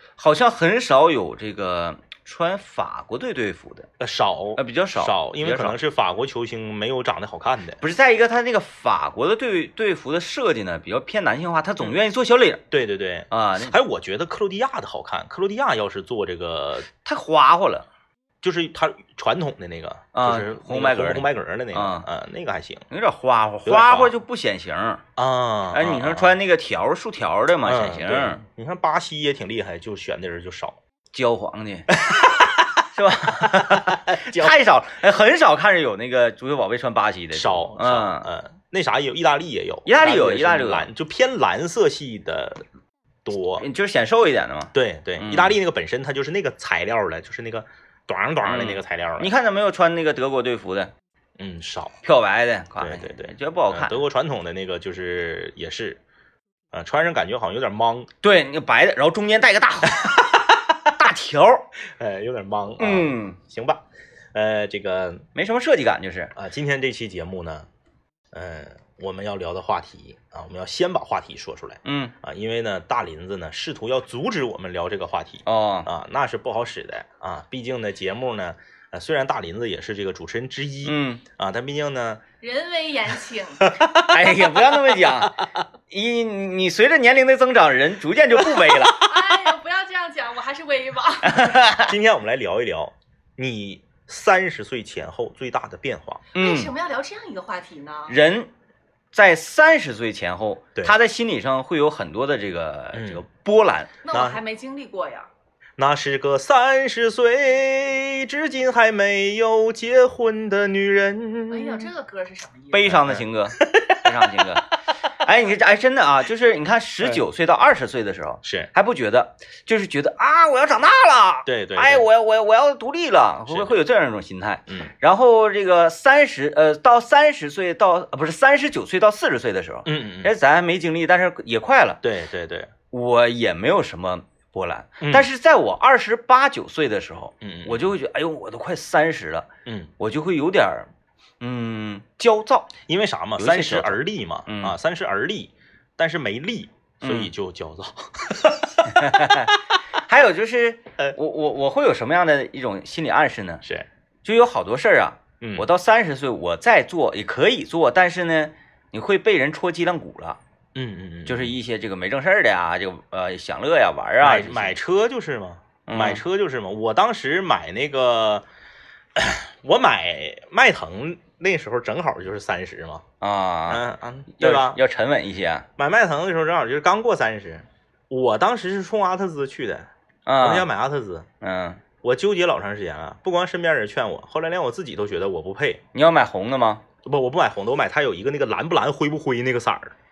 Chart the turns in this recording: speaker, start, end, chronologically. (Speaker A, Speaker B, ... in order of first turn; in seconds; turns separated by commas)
Speaker A: 0.2-3.9, Speaker B: 4.0-7.8, Speaker A: 4.6-5.8, Speaker A: 7.8-12.6, Speaker B: 12.7-16.9, Speaker A: 13.3-13.7, Speaker A: 17.0-17.9, Speaker B: 18.4-22.9, Speaker A: 20.1-22.1, Speaker A: 22.9-25.0, Speaker B: 23.6-24.1, Speaker B: 25.2-26.3, Speaker A: 25.7-28.4, Speaker B: 27.6-30.8, Speaker A: 31.1-32.2, Speaker B: 32.0-32.7, Speaker A: 32.9-38.3, Speaker B: 33.3-34.5, Speaker B: 37.3-42.6, Speaker A: 39.9-40.9, Speaker B: 43.2-43.6, Speaker A: 43.6-45.6, Speaker B: 44.7-49.3, Speaker A: 48.5-50.9, Speaker B: 51.4-52.0, Speaker A: 52.0-54.0, Speaker B: 52.8-56.0, Speaker B: 56.7-58.1, Speaker A: 58.2-60.3, Speaker A: 60.9-61.7, Speaker B: 62.0-63.8, Speaker A: 62.8-63.4, Speaker B: 64.3-65.2, Speaker A: 65.3-66.3, Speaker B: 66.4-67.7, Speaker B: 68.3-82.2, Speaker A: 71.8-72.1, Speaker A: 75.5-75.9, Speaker A: 80.8-81.2, Speaker C: 82.4-83.7, Speaker B: 83.6-85.3, Speaker A: 84.0-85.3, Speaker A: 85.9-89.1, Speaker C: 88.9-91.5, Speaker A: 91.2-91.9, Speaker B: 91.8-96.2, Speaker A: 96.3-96.7, Speaker C: 96.4-98.2, Speaker A: 98.1-98.5, Speaker A: 99.1-103.9, Speaker B: 102.9-103.2, Speaker C: 104.0-105.3, Speaker B: 104.1-104.4, Speaker B: 105.8-111.9, Speaker C: 111.5-112.9, Speaker A: 112.7-132.0, Speaker B: 112.9-114.5, Speaker B: 118.4-118.7, Speaker B: 121.5-122.0, Speaker B: 123.5-123.7, Speaker B: 129.8-130.3, Speaker B: 132.0-132.7, Speaker A: 132.9-142.7, Speaker B: 135.0-135.3, Speaker B: 137.4-137.9, Speaker B: 142.9-149.5, Speaker A: 143.4-144.8, Speaker A: 147.0-147.3, Speaker A: 148.8-153.6, Speaker A: 154.2-160.4, Speaker B: 155.4-155.7, Speaker B: 160.8-161.5, Speaker A: 161.3-164.8, Speaker B: 164.2-168.4, Speaker A: 165.9-166.2, Speaker B: 169.2-173.0, Speaker A: 173.2-173.8, Speaker B: 173.7-174.8, Speaker A: 174.3-175.7, Speaker B: 175.8-179.9, Speaker A: 180.3-180.7, Speaker B: 180.4-181.3, Speaker A: 181.4-181.8, Speaker B: 182.0-185.8, Speaker A: 185.9-186.8, Speaker B: 187.1-189.9